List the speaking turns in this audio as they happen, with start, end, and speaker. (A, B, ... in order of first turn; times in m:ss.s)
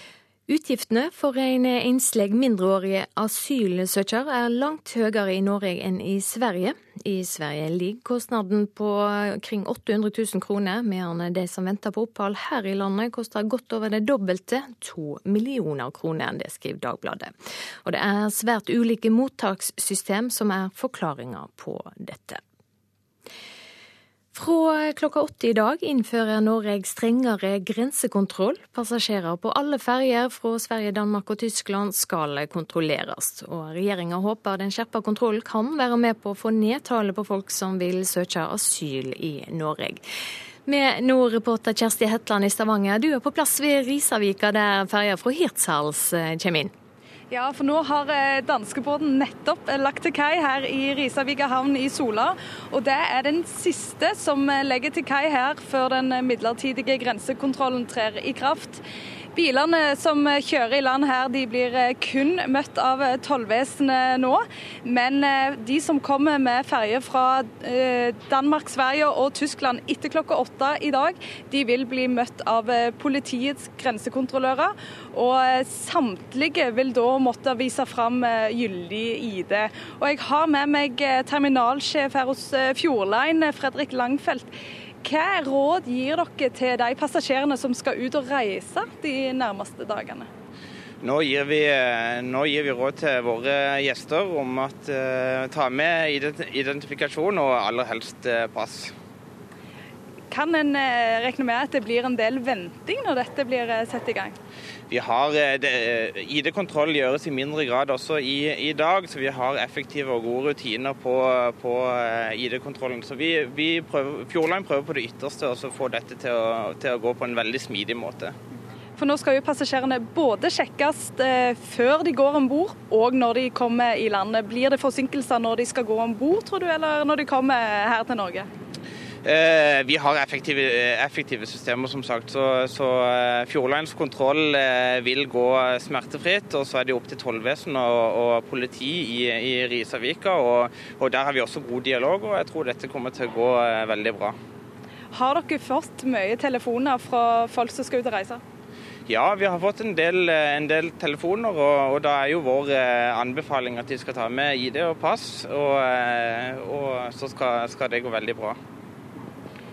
0:00.5-0:22.4 A
0:24.3-0:40.0 A
0:40.6-0:46.7 A
0:47.3-0:58.8 B
0:59.3-1:24.5 B
1:25.0-1:30.3 B
1:31.0-1:38.9 C
1:40.3-1:44.3 B
1:44.9-1:58.3 C
1:59.0-2:08.5 B
2:09.2-2:24.4 C
2:25.1-2:28.4 B
2:29.1-2:38.6 C